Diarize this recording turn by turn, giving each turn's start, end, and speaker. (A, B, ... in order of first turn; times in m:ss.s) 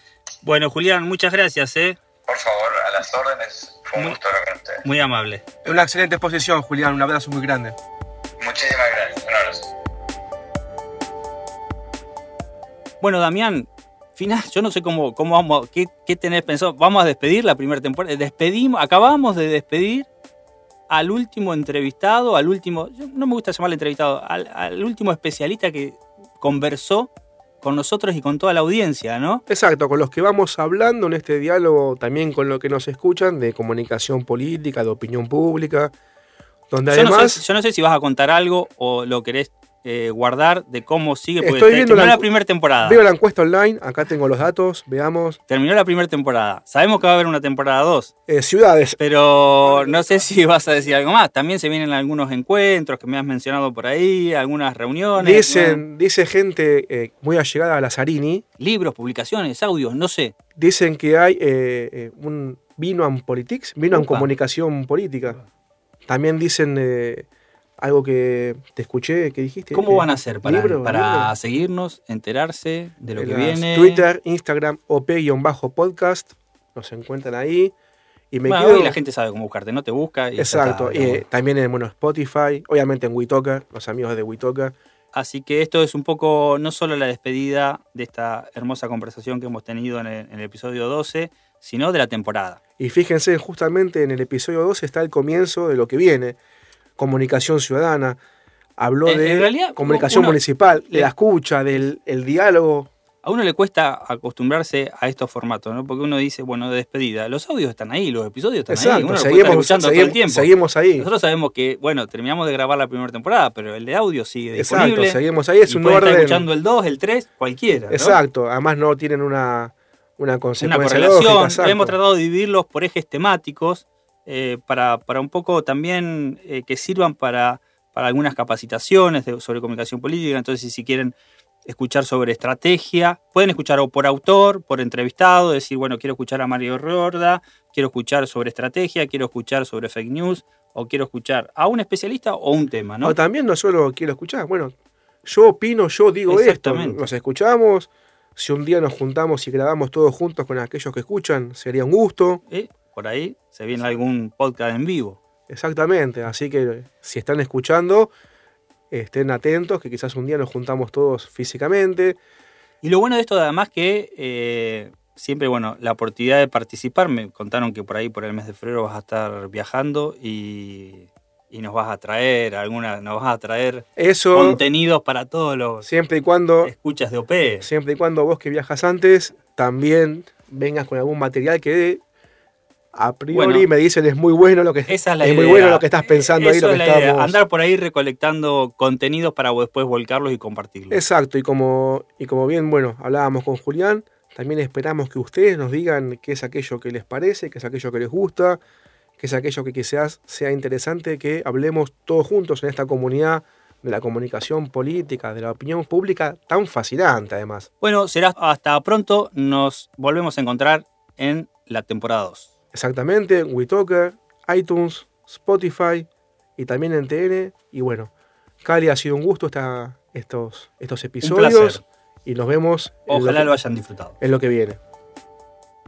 0:00.4-0:02.0 A
0:02.3-0:04.8 B
0:04.8-0:05.4 A
0:05.6-0:07.8 C
0:08.4-0:09.7 B
0:13.0-0:20.0 A
0:20.9-0:27.1 A
0:27.6-0:29.4 A
0:29.5-0:35.9 C
0:36.7-0:37.4 C
0:36.9-0:43.0 A
0:41.4-0:42.3 C
0:42.8-0:45.4 C
0:45.5-0:48.1 A
0:48.3-0:49.0 C
0:49.0-0:55.8 A
0:49.6-0:50.2 C
0:55.2-0:58.4 C
0:58.6-1:00.3 A
1:00.6-1:05.4 C
1:03.9-1:04.3 A
1:06.1-1:07.2 C
1:07.8-1:11.3 C
1:09.7-1:14.0 A
1:13.2-1:17.7 C
1:18.3-1:19.0 C
1:18.5-1:21.2 A
1:20.4-1:24.8 C
1:25.1-1:32.6 A
1:32.8-1:36.4 C
1:37.0-1:38.2 C
1:38.8-1:42.9 C
1:39.0-1:41.1 A
1:43.2-1:58.2 A
1:48.7-1:51.1 C
1:54.6-1:56.4 C
1:57.9-2:02.0 C
2:00.6-2:23.2 A
2:23.0-2:24.7 C
2:25.2-2:32.4 C
2:26.3-2:27.1 A
2:32.5-2:35.2 A
2:35.5-2:38.1 C
2:38.9-2:42.2 C
2:42.8-2:55.9 A
2:54.0-2:54.6 C
2:55.8-2:56.7 C
2:56.6-2:57.7 A
2:57.6-3:02.0 C
3:02.9-3:07.4 C
3:03.3-3:03.6 A
3:04.9-3:11.0 A
3:10.9-3:18.6 C
3:19.2-3:27.7 C
3:27.8-3:32.5 A
3:32.7-3:38.1 C
3:38.6-3:43.5 C
3:41.2-3:41.8 A
3:43.1-3:44.2 A
3:44.2-3:44.8 C